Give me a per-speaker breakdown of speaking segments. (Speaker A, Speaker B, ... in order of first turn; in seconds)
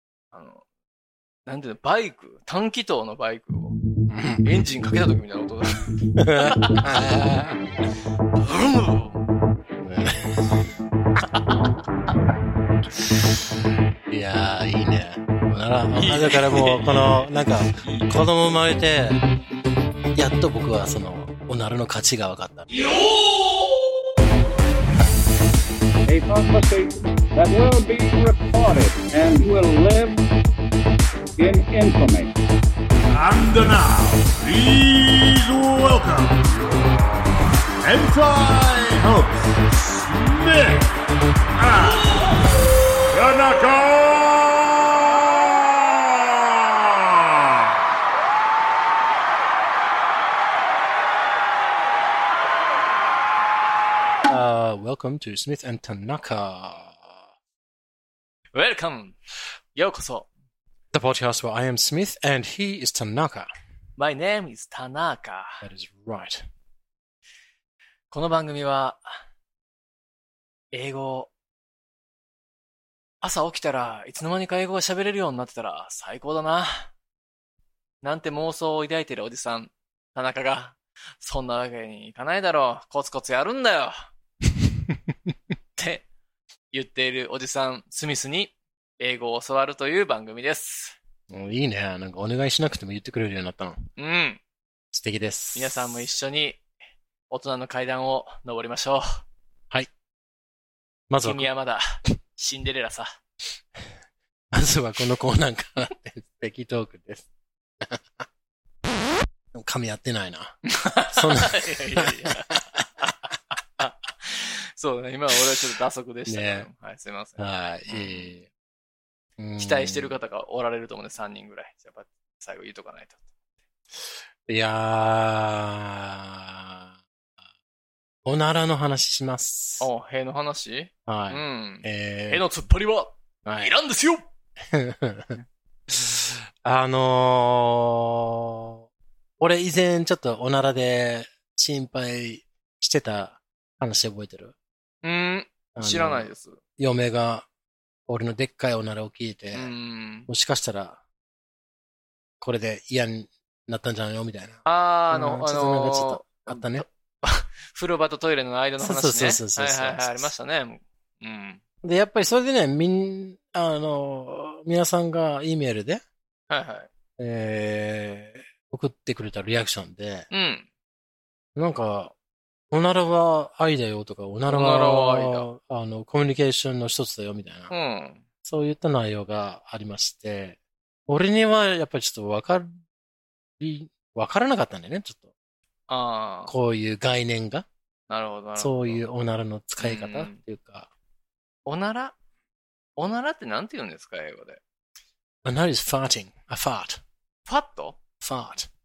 Speaker A: 0.3-0.6, 1.5-3.8, 4.4-7.2, 8.4-9.2, 11.3-11.6, 15.9-17.3, 17.8-18.1, 58.5-59.2, 59.7-60.3, 64.0-65.7, 68.1-69.1, 70.7-71.3, 73.2-76.9, 78.0-84.1, 85.8-86.0, 86.7-91.0, 94.0-94.4, 95.5-96.6, 97.3-99.2, 101.2-103.1, 110.7-113.2, 113.8-118.4, 119.6-123.2, 129.8-134.3, 145.0-146.6, 149.5-150.3, 154.7-161.6, 166.5-166.9, 170.3-170.7, 174.5-175.5, 177.7-178.2, 185.9-186.5, 188.1-189.0, 189.8-190.4, 191.7-192.2, 193.0-194.6, 197.5-198.0
Speaker B: 4.1-4.5, 6.2-7.6, 9.8-10.4, 14.1-19.2, 20.1-22.7, 54.3-57.2, 60.9-63.5, 65.6-66.5, 91.3-93.8, 94.9-96.0, 101.1-101.5, 104.5-107.2, 109.5-112.8, 116.3-116.7, 117.4-118.4, 119.4-120.1, 124.5-127.0, 128.2-129.9, 131.1-132.4, 133.4-133.7, 134.7-135.4, 135.9-138.8, 139.4-144.5, 145.8-147.5, 148.1-149.7, 150.3-151.0, 152.4-156.8, 158.8-160.3, 161.8-166.0, 167.2-170.3, 171.6-172.1, 172.7-177.7, 178.4-182.8, 183.6-185.3, 186.5-187.7, 188.6-190.9, 195.4-197.0, 198.2-198.7
Speaker C: 26.1-30.2, 31.4-32.3
Speaker D: 33.1-37.2, 37.8-41.0, 41.5-42.5, 43.1-47.3